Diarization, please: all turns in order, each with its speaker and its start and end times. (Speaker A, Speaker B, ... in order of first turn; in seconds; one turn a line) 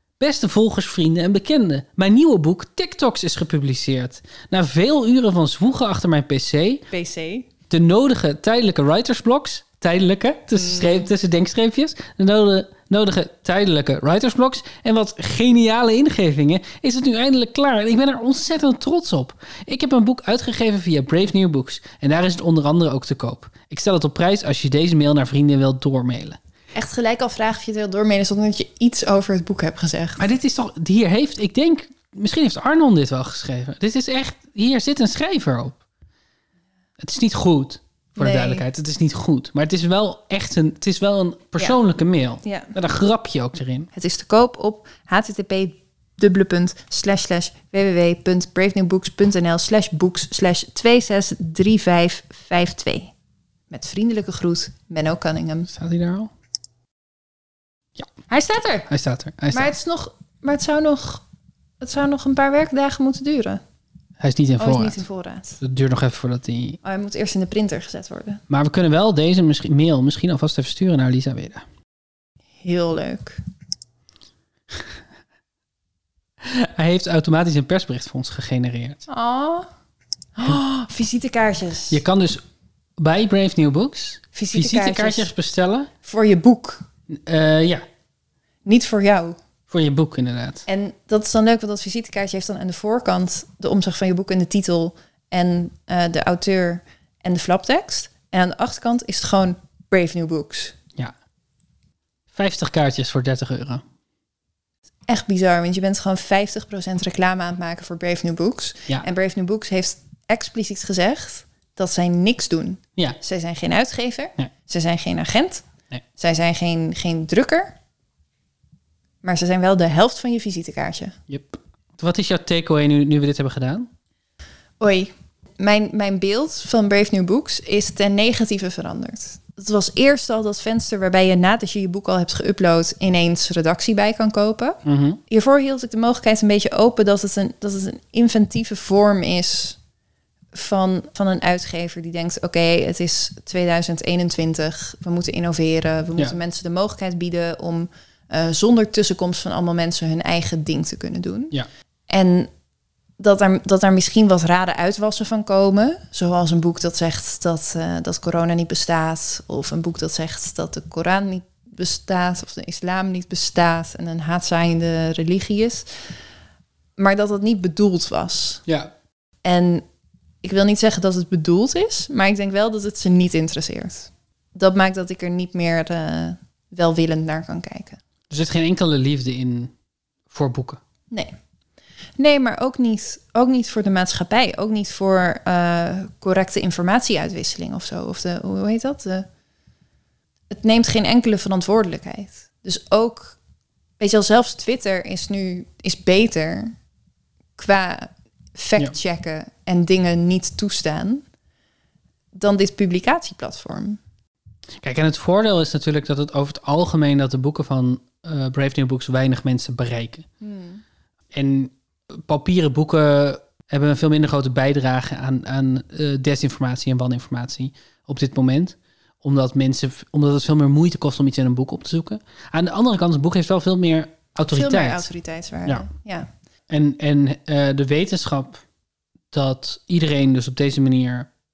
Speaker A: 0.2-6.9
Speaker B: 6.9-7.5
Speaker A: 7.7-26.4
Speaker B: 10.5-11.1
Speaker B: 26.7-30.3
Speaker A: 30.2-35.8
Speaker A: 37.0-43.9
Speaker B: 38.2-38.7
Speaker B: 42.4-42.7
Speaker B: 43.9-53.1
Speaker B: 53.7-55.7
Speaker A: 55.7-56.3
Speaker B: 58.3-58.9
Speaker A: 58.9-59.8
Speaker B: 59.5-61.2
Speaker B: 61.8-63.6
Speaker A: 64.2-65.0
Speaker B: 64.6-65.6
Speaker A: 65.6-66.8
Speaker B: 66.8-68.4
Speaker A: 68.5-71.7
Speaker B: 72.6-73.4
Speaker A: 76.4-79.1
Speaker B: 79.1-79.7
Speaker B: 80.4-82.0
Speaker A: 81.9-82.4
Speaker A: 83.0-85.9
Speaker B: 84.3-85.3
Speaker B: 86.0-86.8
Speaker A: 87.1-87.8
Speaker B: 88.7-89.4
Speaker A: 89.7-90.7
Speaker B: 90.7-100.8
Speaker A: 102.3-103.8
Speaker B: 105.1-115.6
Speaker B: 116.2-117.8
Speaker B: 119.2-121.2
Speaker A: 121.3-123.9
Speaker B: 124.8-139.8
Speaker A: 134.8-135.2
Speaker B: 140.5-151.5
Speaker B: 152.1-152.5
Speaker B: 153.2-165.9
Speaker B: 167.0-168.6
Speaker A: 168.7-168.9
Speaker B: 169.4-169.8
Speaker B: 170.4-178.0
Speaker A: 178.3-179.7
Speaker A: 180.3-180.8
Speaker B: 182.2-189.3
Speaker B: 190.5-193.4
Speaker B: 194.0-196.8
Speaker B: 197.6-201.2
Speaker B: 202.3-204.0
Speaker A: 204.8-210.3
Speaker B: 210.4-210.8
Speaker A: 211.3-225.1
Speaker B: 224.5-226.3
Speaker A: 226.7-228.6
Speaker A: 229.3-231.3